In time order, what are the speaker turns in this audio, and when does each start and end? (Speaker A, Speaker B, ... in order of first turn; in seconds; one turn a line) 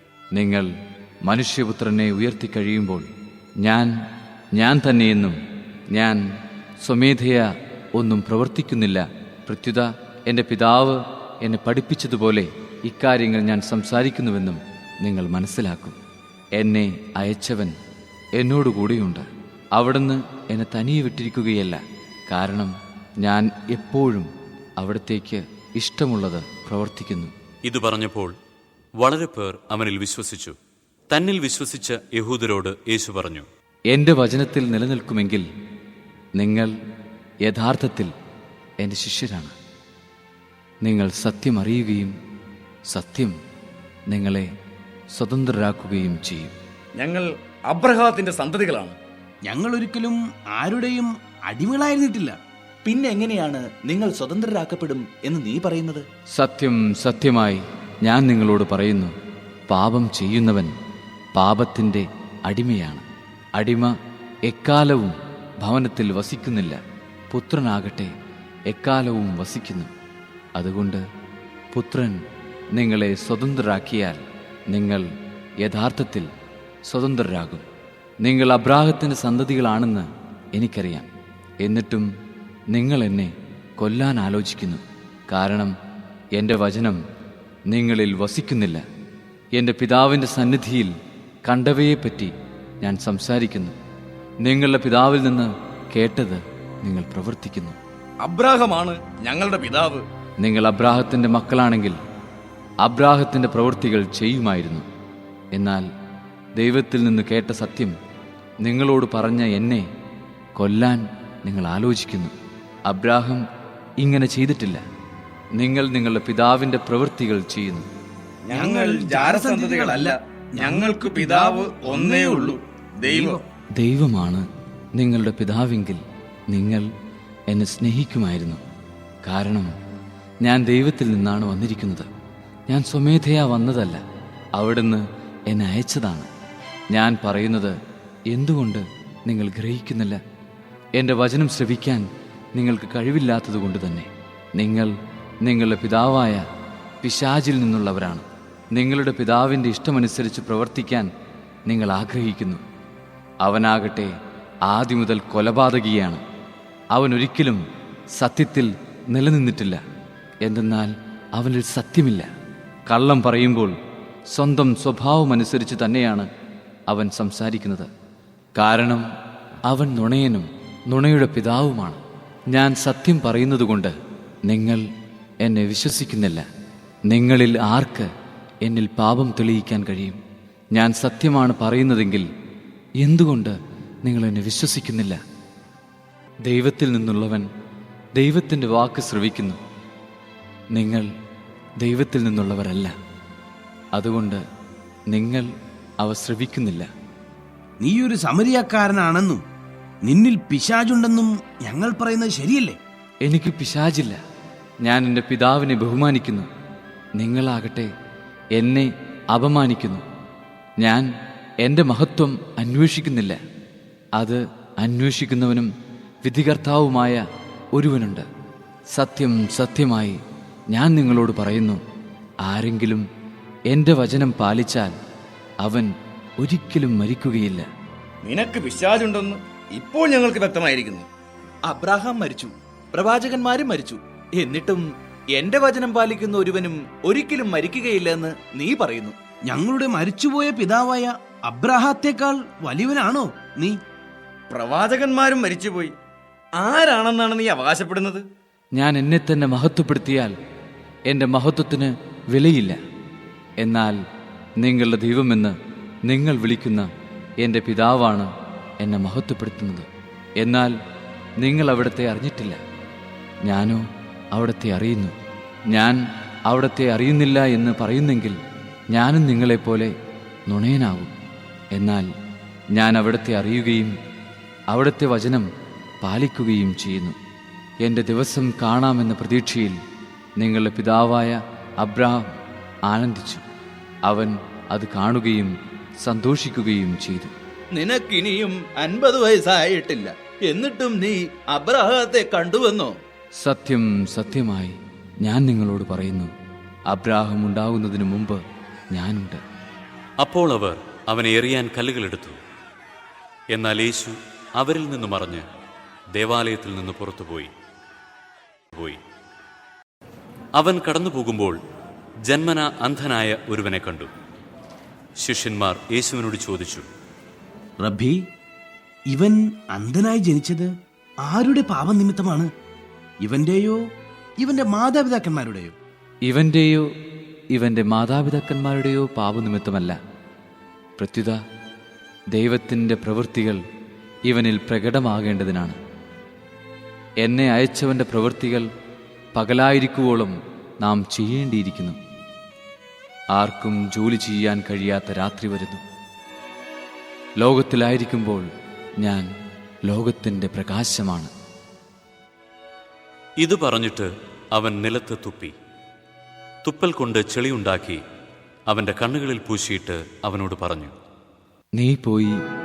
Speaker A: 0.3-0.7
Speaker A: 1.3-3.1
Speaker A: 3.6-3.9
Speaker A: 4.5-5.4
Speaker A: 5.9-6.2
Speaker A: 6.8-16.0
Speaker A: 16.6-17.8
Speaker A: 18.4-27.3
Speaker B: 27.6-28.3
Speaker B: 29.0-30.6
Speaker B: 31.1-33.5
Speaker A: 33.9-35.5
Speaker A: 36.4-36.7
Speaker A: 37.4-38.1
Speaker A: 38.8-39.5
Speaker A: 40.8-42.1
Speaker A: 42.9-43.4
Speaker A: 44.1-44.5
Speaker A: 45.1-46.5
Speaker C: 47.0-49.0
Speaker D: 49.5-52.4
Speaker E: 52.8-56.0
Speaker A: 56.3-59.1
Speaker A: 59.7-60.7
Speaker A: 61.4-63.0
Speaker A: 63.6-63.9
Speaker A: 64.5-68.1
Speaker A: 68.7-69.9
Speaker A: 70.6-71.0
Speaker A: 71.7-72.2
Speaker A: 72.7-75.1
Speaker A: 75.6-76.3
Speaker A: 76.9-77.6
Speaker A: 78.2-81.1
Speaker A: 81.6-82.1
Speaker A: 82.7-85.7
Speaker A: 86.3-87.0
Speaker A: 87.7-88.8
Speaker A: 89.5-90.9
Speaker A: 91.4-93.8
Speaker A: 94.4-97.8
Speaker C: 98.2-100.0
Speaker A: 100.4-102.0
Speaker A: 102.8-104.8
Speaker A: 105.5-105.9
Speaker A: 106.6-108.0
Speaker A: 108.6-109.9
Speaker A: 110.6-112.3
Speaker A: 112.9-113.4
Speaker A: 114.0-114.8
Speaker A: 115.5-117.9
Speaker C: 118.5-123.4
Speaker D: 118.5-123.4
Speaker A: 123.8-126.9
Speaker A: 127.5-128.6
Speaker A: 129.2-129.7
Speaker A: 130.4-132.1
Speaker A: 132.7-134.0
Speaker A: 134.6-136.3
Speaker A: 136.9-137.8
Speaker A: 138.3-140.2
Speaker A: 141.0-146.4
Speaker A: 147.0-151.1
Speaker A: 151.7-152.6
Speaker A: 153.4-154.1
Speaker A: 154.7-156.2
Speaker A: 156.9-157.6
Speaker A: 158.1-159.8
Speaker A: 160.4-162.3
Speaker A: 162.9-163.8
Speaker A: 164.3-166.3
Speaker A: 166.9-167.9
Speaker A: 168.6-169.1
Speaker A: 169.7-172.0
Speaker A: 172.5-173.9
Speaker A: 174.5-174.8
Speaker A: 175.4-176.5
Speaker A: 177.1-178.1
Speaker A: 178.6-180.2
Speaker A: 180.7-182.3
Speaker A: 183.0-185.2
Speaker A: 186.4-187.5
Speaker A: 188.2-189.6
Speaker A: 190.7-191.1
Speaker A: 191.8-192.9
Speaker A: 193.9-194.4
Speaker A: 195.1-195.5
Speaker A: 196.0-196.9
Speaker D: 197.8-199.4
Speaker D: 200.1-202.8
Speaker A: 203.2-204.2
Speaker A: 204.8-206.5
Speaker A: 207.2-207.9
Speaker A: 208.6-210.0
Speaker A: 210.8-211.1
Speaker A: 211.6-213.4
Speaker A: 214.2-215.7
Speaker A: 216.2-217.2
Speaker A: 217.7-218.3
Speaker A: 218.9-221.8
Speaker A: 222.4-223.1
Speaker A: 223.7-225.0
Speaker A: 225.6-227.7
Speaker C: 228.2-231.1
Speaker E: 231.7-239.2
Speaker D: 239.5-243.8
Speaker C: 244.5-245.9
Speaker C: 246.6-248.2
Speaker A: 248.8-250.3
Speaker A: 251.1-252.8
Speaker A: 253.6-254.0
Speaker A: 254.6-256.9
Speaker A: 257.4-259.9
Speaker A: 260.4-260.7
Speaker A: 261.4-262.6
Speaker A: 263.4-265.2
Speaker A: 265.7-268.4
Speaker A: 268.9-269.9
Speaker A: 270.5-271.1
Speaker A: 271.7-272.1
Speaker A: 272.7-273.9
Speaker A: 274.7-275.5
Speaker A: 276.0-277.2
Speaker A: 277.8-279.8
Speaker A: 280.4-283.4
Speaker A: 284.1-287.3
Speaker E: 287.7-293.0
Speaker A: 293.4-296.3
Speaker A: 296.9-299.4
Speaker B: 300.2-302.4
Speaker B: 303.5-305.4
Speaker B: 306.1-307.5
Speaker B: 308.7-309.0
Speaker B: 310.6-311.6
Speaker B: 312.2-314.1
Speaker B: 315.2-316.9
Speaker D: 317.8-318.2
Speaker D: 319.1-320.7
Speaker D: 321.2-322.5
Speaker D: 323.2-323.8
Speaker D: 324.4-325.7
Speaker A: 326.2-326.9
Speaker A: 327.5-330.0
Speaker A: 331.0-331.4
Speaker A: 332.3-333.6
Speaker A: 334.3-335.8
Speaker A: 337.2-338.7
Speaker A: 339.4-342.0
Speaker A: 343.3-345.8
Speaker A: 347.4-348.5
Speaker A: 349.0-349.3
Speaker A: 349.9-351.3
Speaker B: 353.4-355.5
Speaker B: 356.6-358.0
Speaker B: 358.7-360.9
Speaker A: 361.8-362.4